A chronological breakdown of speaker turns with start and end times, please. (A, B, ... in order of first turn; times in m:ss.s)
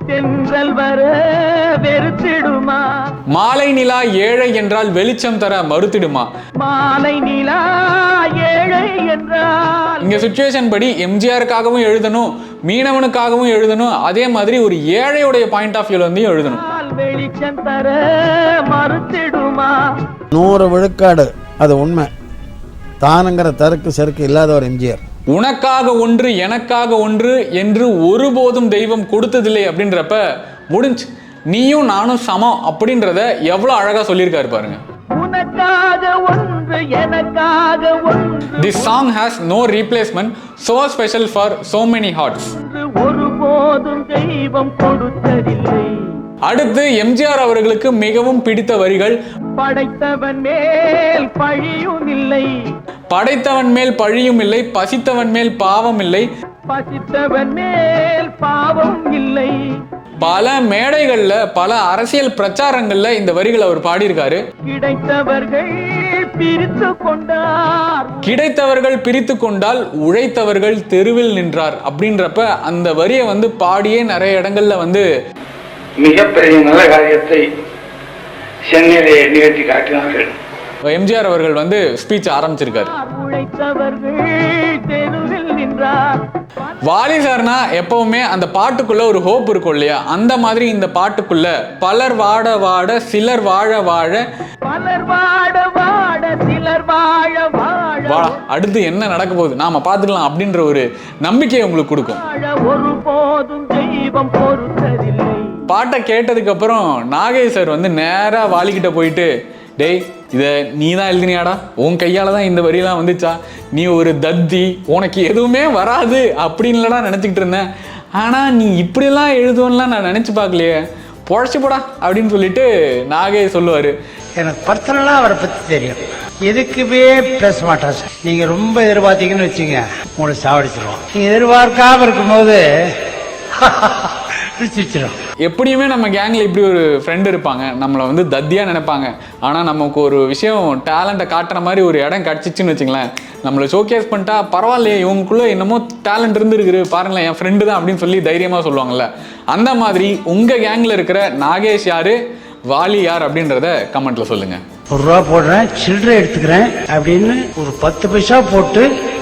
0:00.1-0:02.9 A
0:03.3-0:06.3 B
0:06.6-0:10.2 A
0:10.0-0:16.6 B
0:16.5-0:19.8 A
0:20.3-0:22.1 C
0:23.0-0:25.0 C
0:25.3-0:34.8 B
0:35.1-0:39.0 A
0:38.6-0:42.5 B
0:42.5-0:46.2 A
0:46.4-0:49.2 B
0:49.6-0:52.7 A
0:53.1-0:56.3 B
0:56.7-0:59.6 A
1:00.2-1:04.4 B
1:04.7-1:08.3 A
1:08.2-1:15.0 B
1:16.0-1:17.5 D
1:18.6-1:20.3 D
1:20.9-1:22.9 B
1:22.7-1:26.2 A
1:26.8-1:34.2 B
1:34.7-1:38.4 A
1:38.1-1:42.2 B
1:42.1-1:45.6 A
1:45.7-2:04.0 B
2:04.4-2:12.7 E
2:13.6-2:15.2 E
2:15.4-2:32.2 B
2:32.7-2:34.6 B
2:34.9-2:38.9 E